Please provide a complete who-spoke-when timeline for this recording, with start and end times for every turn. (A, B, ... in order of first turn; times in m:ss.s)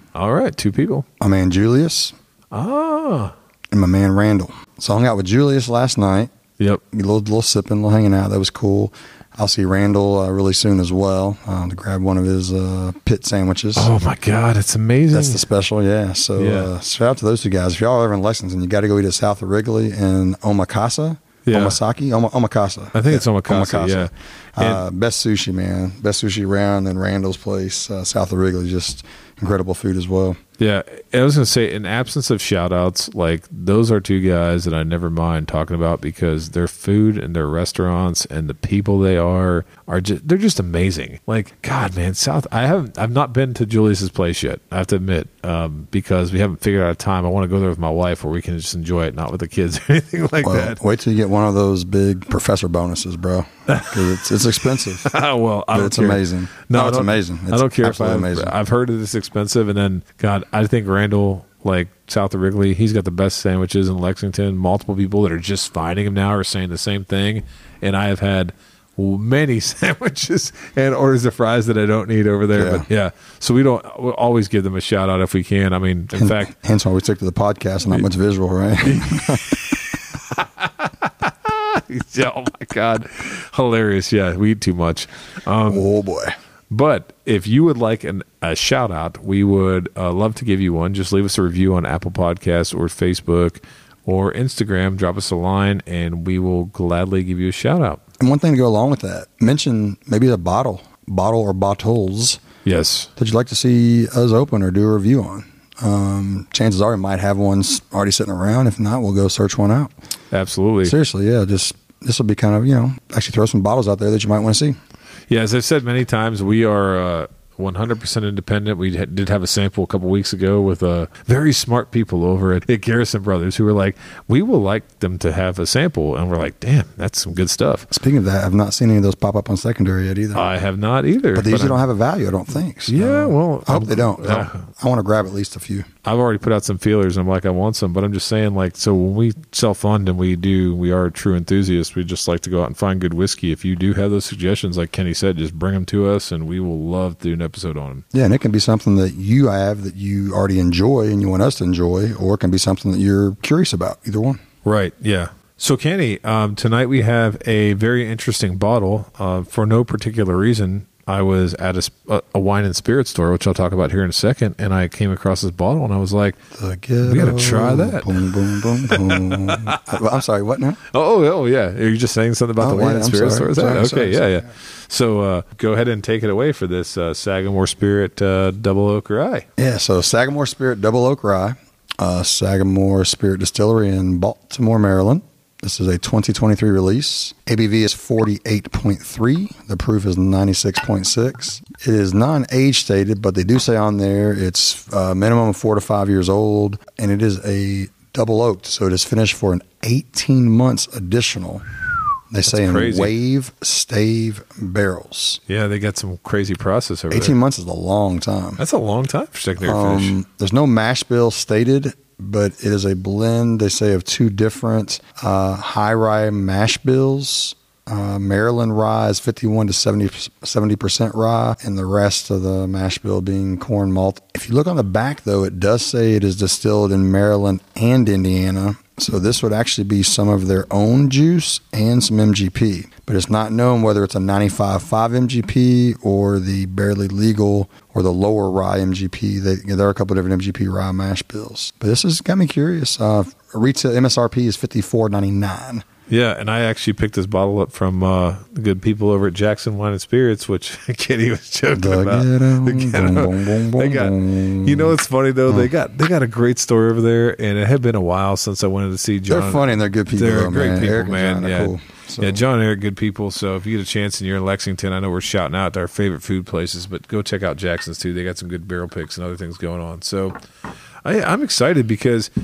0:00.2-0:01.1 A
0:01.2-0:02.2 B
0:02.5-0:03.3 A
0:03.7-0:06.3 B
0:06.9-0:13.9 B
0:13.8-0:15.4 A
0:15.1-0:30.4 B
0:16.4-0:16.7 A
0:21.4-0:21.8 A
0:22.9-0:24.8 A
0:30.6-0:50.8 A
0:50.4-0:55.1 B
0:53.7-0:54.2 A
0:55.0-1:16.5 A
0:55.7-0:58.5 B
1:12.5-1:12.8 B
1:16.2-1:19.8 B
1:18.8-1:25.8 A
1:25.7-1:26.4 B
1:26.7-1:38.0 A
1:38.2-1:42.4 B
1:42.6-1:43.1 A
1:43.2-1:49.9 B
1:50.3-1:51.0 A
1:50.8-1:54.8 B
1:55.3-2:07.9 A
2:07.9-2:10.5 B
2:10.3-2:11.8 A
2:11.4-2:15.9 B
2:12.9-2:14.7 A
2:16.0-2:28.0 A
2:28.1-2:34.4 B
2:34.6-2:46.4 A
2:46.5-2:50.8 B
2:47.0-2:50.0 A
2:50.9-2:59.5 A
2:52.6-2:54.4 B
2:59.6-3:21.6 B
3:22.3-3:25.4 B
3:22.5-3:23.1 A
3:25.5-3:27.4 A
3:27.1-3:28.6 B
3:28.6-3:30.2 A
3:29.6-4:05.8 B
4:06.1-4:30.4 A
4:11.7-4:15.0 B
4:19.3-4:22.4 B
4:31.0-4:32.3 A